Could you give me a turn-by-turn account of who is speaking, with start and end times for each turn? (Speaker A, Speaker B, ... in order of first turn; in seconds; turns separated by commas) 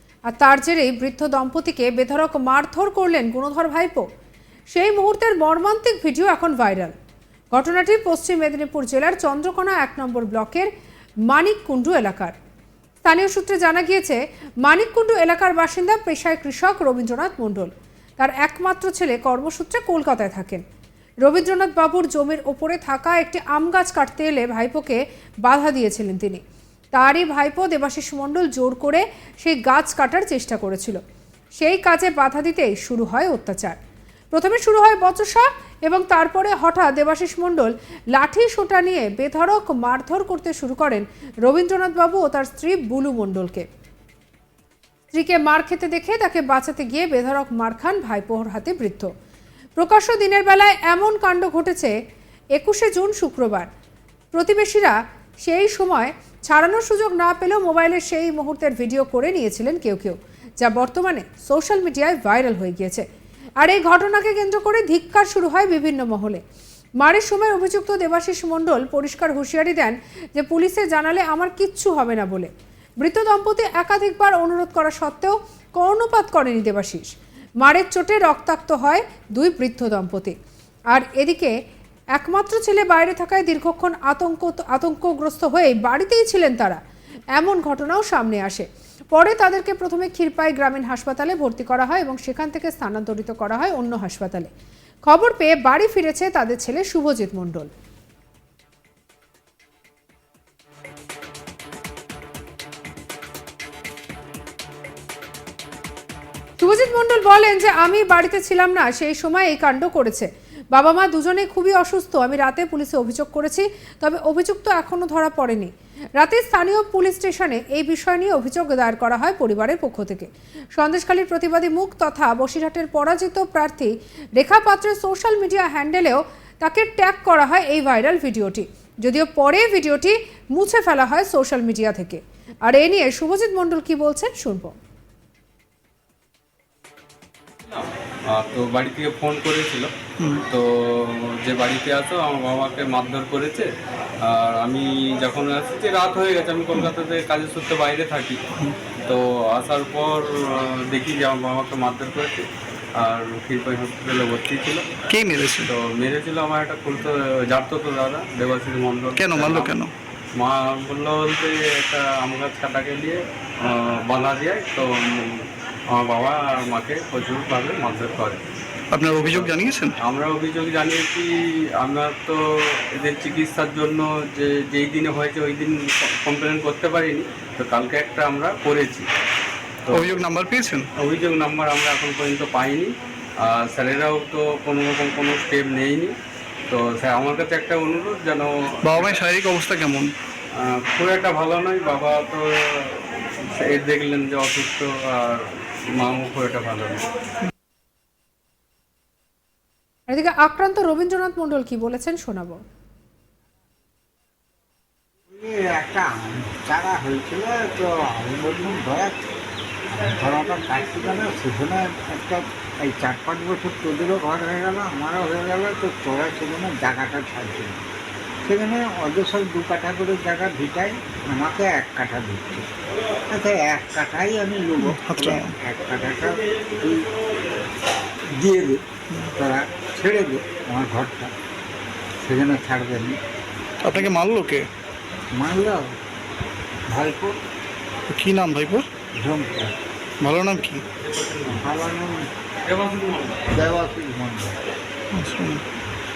Speaker A: 0.3-4.1, Speaker A: 4.7-6.9, Speaker A: 7.5-10.7, Speaker A: 11.3-12.3, Speaker A: 13.0-20.6, Speaker A: 21.2-26.4, Speaker A: 26.9-31.0, Speaker A: 31.6-33.8, Speaker A: 34.3-43.7, Speaker A: 45.1-49.1, Speaker A: 49.8-51.9, Speaker A: 52.5-53.7, Speaker A: 54.3-63.0, Speaker A: 63.6-66.4, Speaker A: 67.0-77.1, Speaker A: 77.6-80.3, Speaker A: 80.9-81.5, Speaker A: 82.1-86.8, Speaker A: 87.3-94.5, Speaker A: 95.1-97.7, Speaker A: 106.6-134.8, Speaker B: 137.8-139.9, Speaker B: 140.5-143.7, Speaker B: 144.2-148.4, Speaker B: 149.1-152.5, Speaker B: 153.0-154.8, Speaker C: 155.1-155.7, Speaker B: 155.7-159.8, Speaker C: 159.2-159.9, Speaker B: 160.4-168.4, Speaker C: 168.9-169.9, Speaker B: 169.1-171.3, Speaker B: 171.8-179.1, Speaker B: 179.9-180.2, Speaker C: 179.9-180.9, Speaker B: 181.0-182.9, Speaker B: 183.4-186.1, Speaker B: 186.7-189.2, Speaker C: 188.8-190.1, Speaker B: 190.6-193.1, Speaker B: 193.6-195.5, Speaker B: 196.0-197.0, Speaker A: 200.1-202.6, Speaker D: 205.3-209.2, Speaker D: 209.9-217.8, Speaker D: 218.4-222.7, Speaker D: 223.3-227.1, Speaker C: 224.8-225.5, Speaker D: 228.3-228.8, Speaker D: 229.4-231.3, Speaker D: 232.2-233.2, Speaker C: 233.8-234.7, Speaker D: 235.3-235.8, Speaker D: 236.9-237.4, Speaker C: 238.1-238.8, Speaker D: 239.2-239.7, Speaker C: 240.2-240.8, Speaker B: 241.1-241.7, Speaker D: 241.6-242.2, Speaker B: 242.7-243.4, Speaker D: 243.5-244.6, Speaker C: 245.1-245.6